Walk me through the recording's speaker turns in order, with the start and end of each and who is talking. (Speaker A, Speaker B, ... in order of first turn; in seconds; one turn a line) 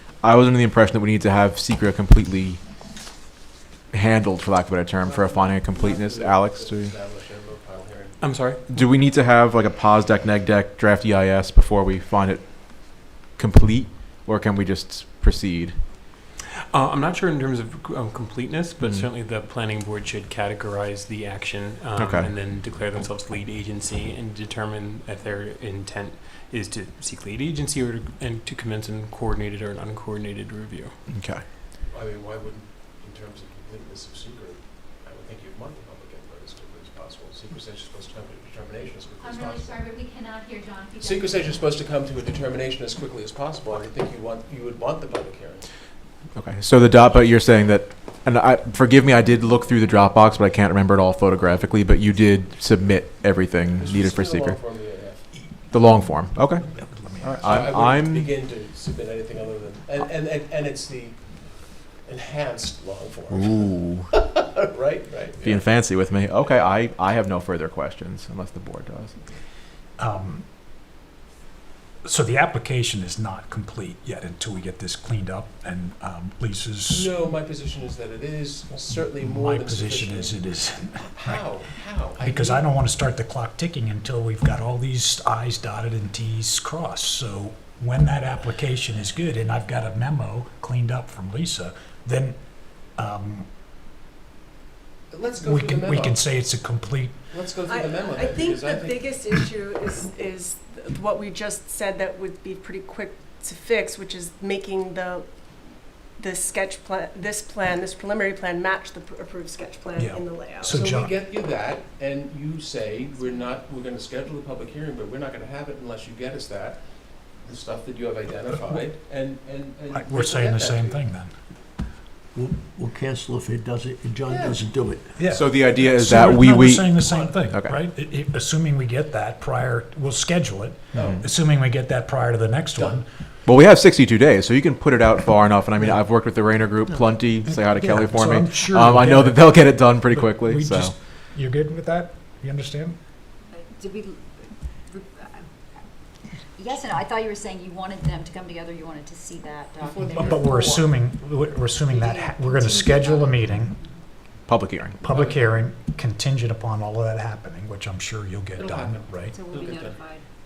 Speaker A: 0.2-2.6
Speaker A: 3.9-6.9
Speaker B: 5.0-8.2
Speaker C: 8.2-8.8
Speaker A: 8.7-15.8
Speaker C: 16.7-31.0
Speaker A: 18.8-19.1
Speaker A: 22.0-22.3
Speaker A: 31.1-31.4
Speaker B: 31.9-39.9
Speaker D: 39.2-41.7
Speaker B: 41.0-45.7
Speaker A: 46.4-54.6
Speaker B: 53.8-55.3
Speaker E: 55.4-57.7
Speaker A: 55.7-56.7
Speaker A: 57.2-58.3
Speaker B: 57.4-61.2
Speaker B: 62.0-65.7
Speaker A: 63.3-64.1
Speaker A: 65.4-69.2
Speaker E: 70.0-70.4
Speaker E: 72.0-77.1
Speaker B: 76.9-80.4
Speaker E: 79.1-81.5
Speaker B: 81.0-82.7
Speaker E: 82.2-92.4
Speaker E: 92.9-93.5
Speaker B: 95.1-96.2
Speaker E: 95.4-97.2
Speaker B: 97.3-99.1
Speaker F: 97.7-105.3
Speaker F: 106.2-110.8
Speaker E: 110.0-111.1
Speaker B: 110.6-116.8
Speaker B: 117.4-121.0
Speaker E: 119.9-121.3
Speaker G: 122.3-125.1
Speaker B: 124.3-124.6
Speaker E: 125.2-133.1
Speaker A: 125.2-127.8
Speaker A: 130.9-131.2
Speaker B: 131.0-131.3
Speaker B: 132.8-133.0
Speaker A: 133.5-140.9
Speaker E: 137.5-143.0
Speaker H: 143.5-145.5
Speaker H: 146.6-150.8
Speaker B: 149.8-150.9
Speaker E: 150.2-153.8
Speaker H: 151.9-153.4
Speaker A: 154.5-155.0
Speaker E: 155.0-159.4
Speaker B: 155.1-155.4
Speaker B: 158.6-160.0
Speaker H: 159.3-160.2